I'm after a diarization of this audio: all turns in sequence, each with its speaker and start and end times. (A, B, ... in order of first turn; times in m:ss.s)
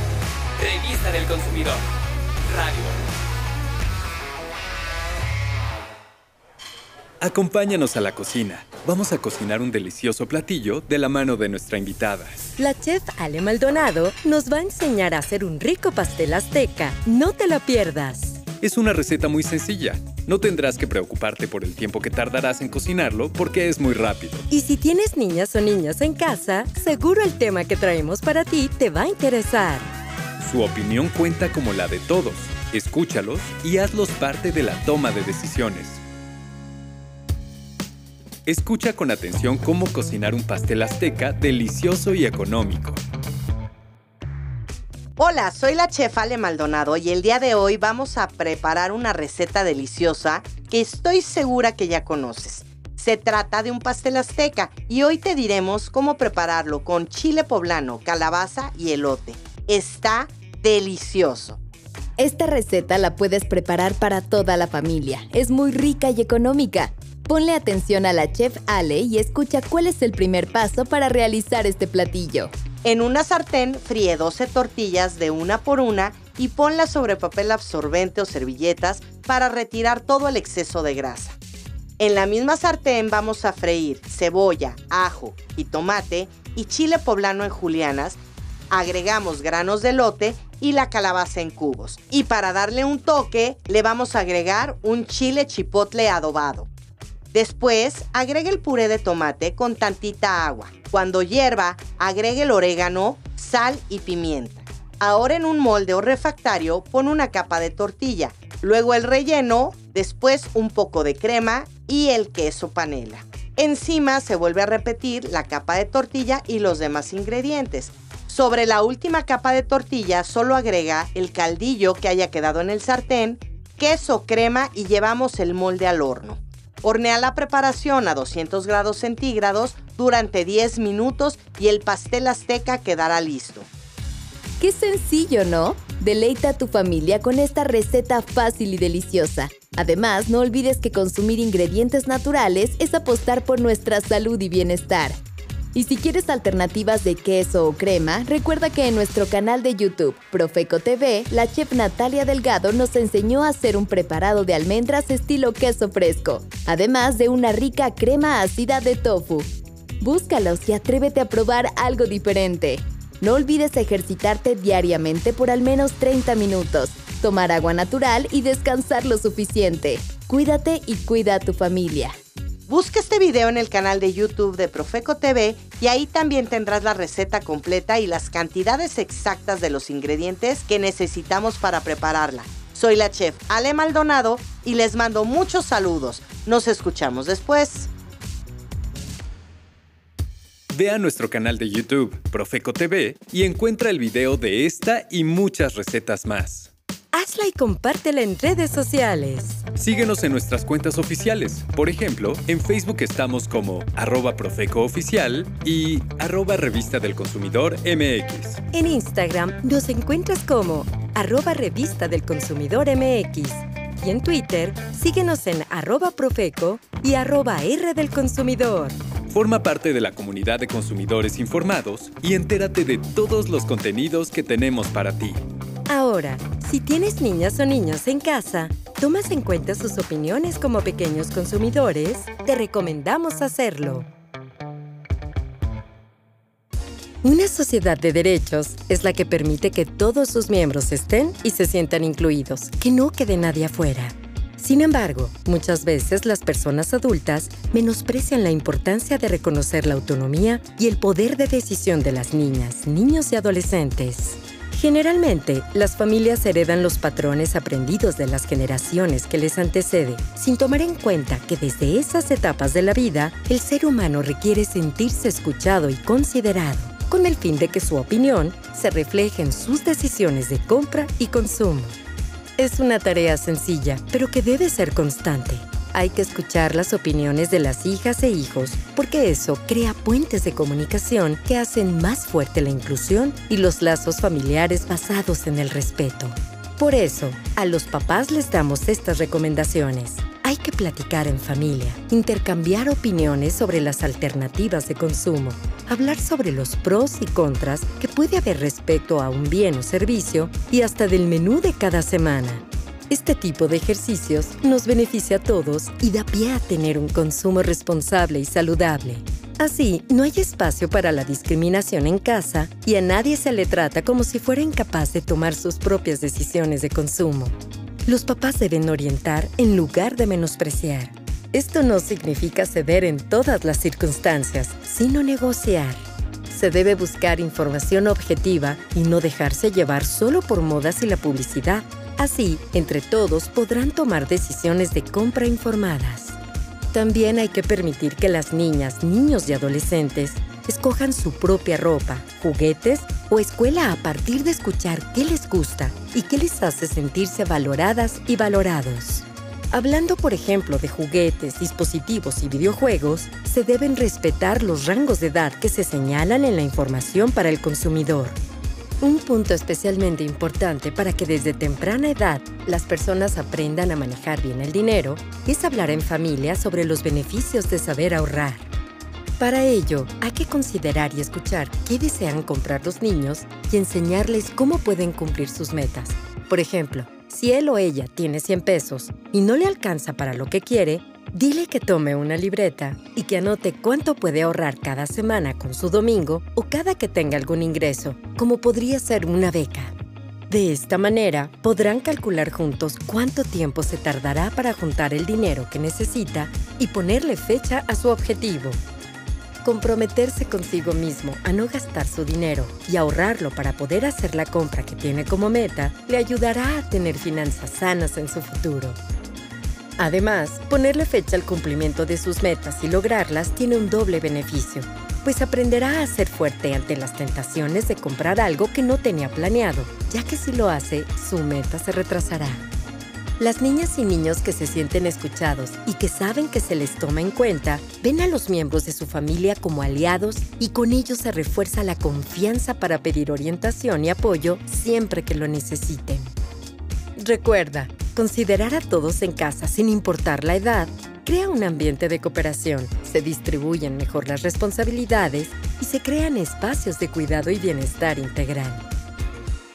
0:00.6-0:01.8 A
0:02.5-0:03.0 A
0:07.2-0:12.5 A
0:12.6-0:18.4 B
0:18.6-0:24.4 A
0:24.5-0:29.9 B
0:30.4-0:36.0 A
0:38.5-0:43.0 A
0:45.2-1:01.6 C
1:02.2-1:12.5 D
1:12.8-1:21.4 C
1:22.0-1:28.2 C
1:28.7-1:36.7 C
1:37.3-2:13.7 C
2:14.6-2:25.2 D
2:25.7-2:39.5 D
2:40.0-2:52.2 D
2:52.7-3:07.9 C
3:10.7-3:16.7 A
3:17.1-3:19.6 B
3:19.8-3:28.6 A
3:28.7-3:39.0 B
3:39.3-3:45.4 A
3:45.9-3:54.1 B
3:57.2-4:32.0 B
4:32.6-5:36.4 B
5:36.9-5:58.4 B
5:59.0-6:08.7 B
6:09.4-6:29.9 B
6:30.5-6:38.8 B
6:39.6-6:49.0 B
6:50.0-7:02.6 B
7:03.4-7:16.4 B
7:17.2-7:28.9 B